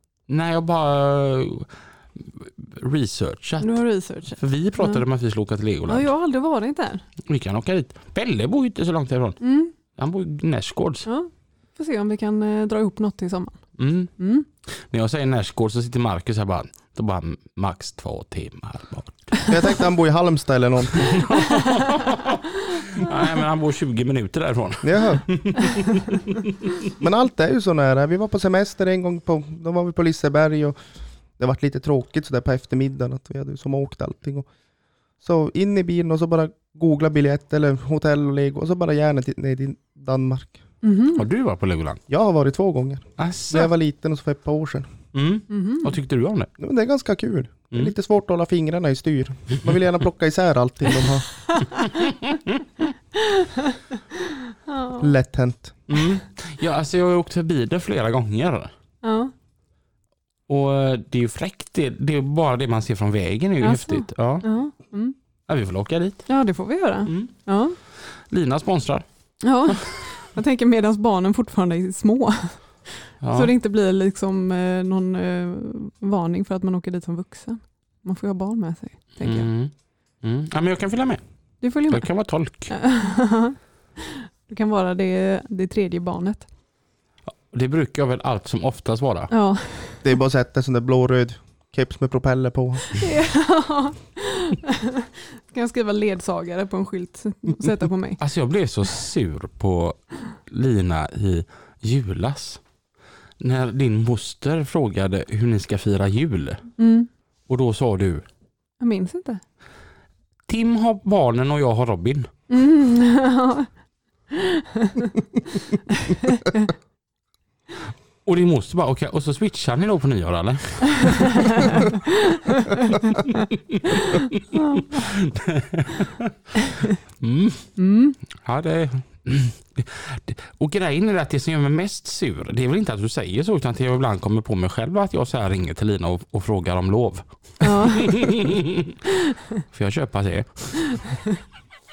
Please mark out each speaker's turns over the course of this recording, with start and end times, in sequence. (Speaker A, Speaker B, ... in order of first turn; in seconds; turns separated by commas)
Speaker A: 0.3-6.1, Speaker B: 3.6-5.0, Speaker B: 5.9-7.0, Speaker A: 7.2-11.1, Speaker B: 9.4-9.8, Speaker B: 11.1-13.6, Speaker A: 13.8-14.1, Speaker B: 14.2-14.4, Speaker A: 14.7-19.4, Speaker C: 19.5-21.2, Speaker A: 20.9-26.4, Speaker C: 24.8-25.2, Speaker C: 27.0-30.8, Speaker C: 31.4-34.5, Speaker C: 35.2-40.6, Speaker B: 40.8-41.2, Speaker A: 41.1-42.0, Speaker C: 42.1-44.9, Speaker A: 43.2-43.7, Speaker A: 45.1-46.5, Speaker B: 45.5-45.9, Speaker C: 46.6-51.3, Speaker A: 52.0-52.4, Speaker B: 54.7-55.1, Speaker C: 55.0-55.8, Speaker A: 55.9-58.7, Speaker B: 59.0-59.3, Speaker A: 60.5-64.5, Speaker B: 63.6-65.2, Speaker A: 65.5-66.3, Speaker B: 66.3-67.8, Speaker A: 67.0-67.3, Speaker A: 68.3-69.0, Speaker B: 69.4-79.5, Speaker A: 73.2-73.5, Speaker A: 79.2-81.2, Speaker B: 81.6-82.1, Speaker A: 81.8-82.7, Speaker B: 82.7-83.5, Speaker B: 84.5-86.5, Speaker A: 87.5-89.3, Speaker B: 89.3-90.0, Speaker C: 90.0-93.0, Speaker B: 92.9-98.2, Speaker A: 98.2-102.6, Speaker A: 103.4-106.7, Speaker B: 106.8-107.1, Speaker A: 107.5-108.2, Speaker B: 108.8-109.4, Speaker A: 110.5-112.3, Speaker B: 112.5-113.7, Speaker B: 114.3-115.1, Speaker B: 116.0-116.7, Speaker A: 118.2-121.7, Speaker A: 123.0-126.3, Speaker A: 127.2-127.7, Speaker B: 127.8-128.2, Speaker A: 128.3-138.9, Speaker B: 137.6-138.2, Speaker A: 139.7-141.0